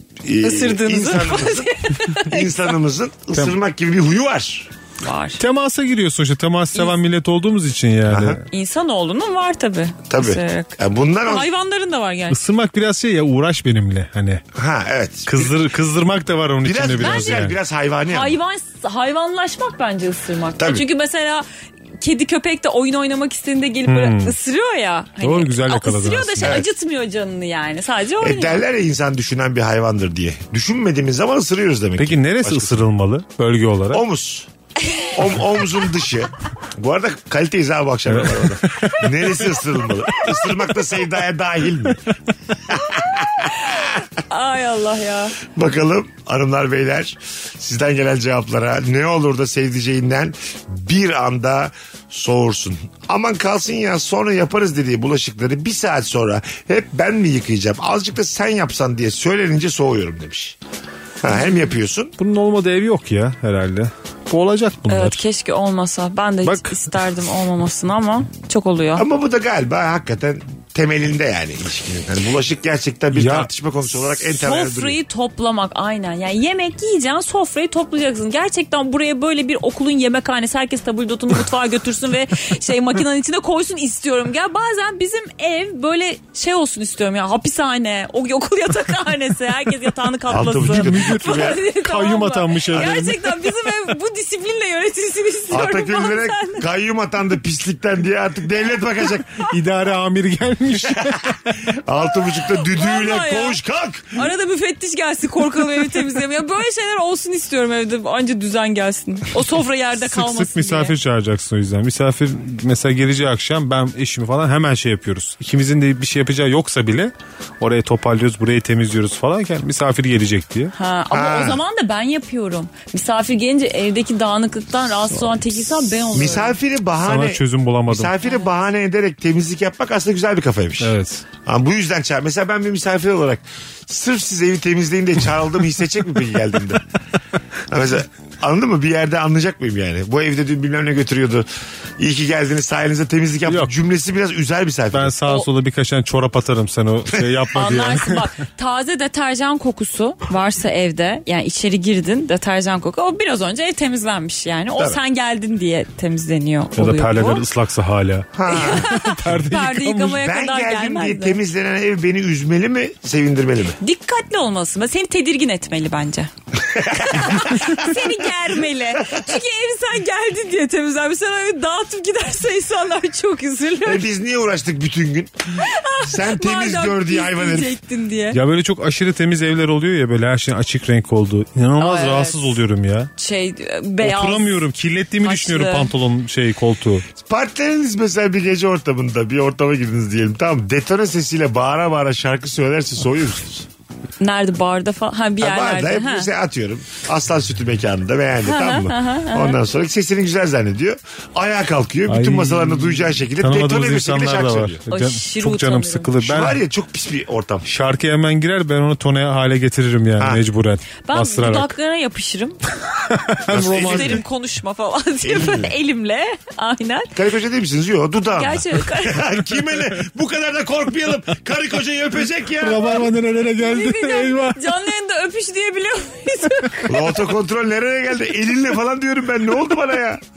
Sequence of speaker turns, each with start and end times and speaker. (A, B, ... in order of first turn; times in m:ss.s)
0:00.2-0:04.7 A
0:00.4-0:02.7 B
0:05.0-0:05.4 B
0:05.4-0:08.5 C
0:08.1-0:08.4 A
0:08.5-0:12.4 B
0:10.1-0:11.5 A
0:12.3-0:14.4 C
0:14.5-0:15.6 A
0:15.3-0:17.6 C
0:16.6-0:18.4 A
0:17.0-0:17.4 B
0:18.1-0:21.4 B
0:20.6-0:20.8 A
0:22.0-0:28.6 B
0:23.9-0:24.4 C
0:25.2-0:26.6 C
0:26.4-0:26.7 A
0:28.2-0:32.9 A
0:32.0-0:34.0 C
0:33.9-0:34.5 A
0:34.9-0:35.1 B
0:35.1-0:42.0 A
0:38.1-0:39.1 C
0:42.7-0:44.0 A
0:43.4-0:45.4 B
0:45.4-1:00.6 A
1:01.2-1:02.1 A
1:02.2-1:05.2 C
1:04.9-1:09.1 B
1:06.4-1:06.8 C
1:09.0-1:15.0 A
1:13.1-1:13.5 C
1:14.2-1:36.6 B
1:30.3-1:31.6 A
1:30.5-1:33.5 C
1:35.5-1:39.5 A
1:39.4-1:41.6 C
1:40.9-1:44.3 A
1:42.4-1:43.6 B
1:44.1-1:50.9 B
1:50.0-2:00.7 C
2:00.7-2:06.6 B
2:01.1-2:01.6 A
2:06.1-2:10.9 A
2:07.0-2:08.2 C
2:10.8-2:11.2 C
2:11.4-2:16.8 A
2:17.7-2:21.5 A
2:22.0-2:25.1 A
2:24.9-2:28.3 C
2:27.5-2:37.4 B
2:36.8-2:40.2 C
2:38.3-2:38.9 A
2:38.5-2:41.4 B
2:40.1-2:43.8 A
2:43.8-2:46.3 B
2:46.6-2:48.0 A
2:46.9-2:54.1 B
2:49.0-2:49.3 A
2:53.8-2:57.8 A
2:55.6-2:58.4 B
2:58.3-3:03.1 C
3:01.8-3:02.6 B
3:03.2-3:04.6 B
3:04.0-3:07.1 C
3:05.2-3:05.9 B
3:07.2-3:13.7 A
3:14.2-3:16.3 B
3:15.4-3:24.8 A
3:18.4-3:19.6 B
3:22.1-3:26.6 C
3:24.9-3:26.1 B
3:26.2-3:27.7 A
3:27.7-3:31.7 C
3:31.1-3:32.6 B
3:33.1-3:34.2 C
3:33.5-3:34.2 A
3:33.6-3:37.1 B
3:35.2-3:35.7 A
3:37.2-3:43.0 A
3:38.3-3:39.3 B
3:42.6-3:44.6 C
3:43.6-3:47.2 B
3:46.9-3:50.2 A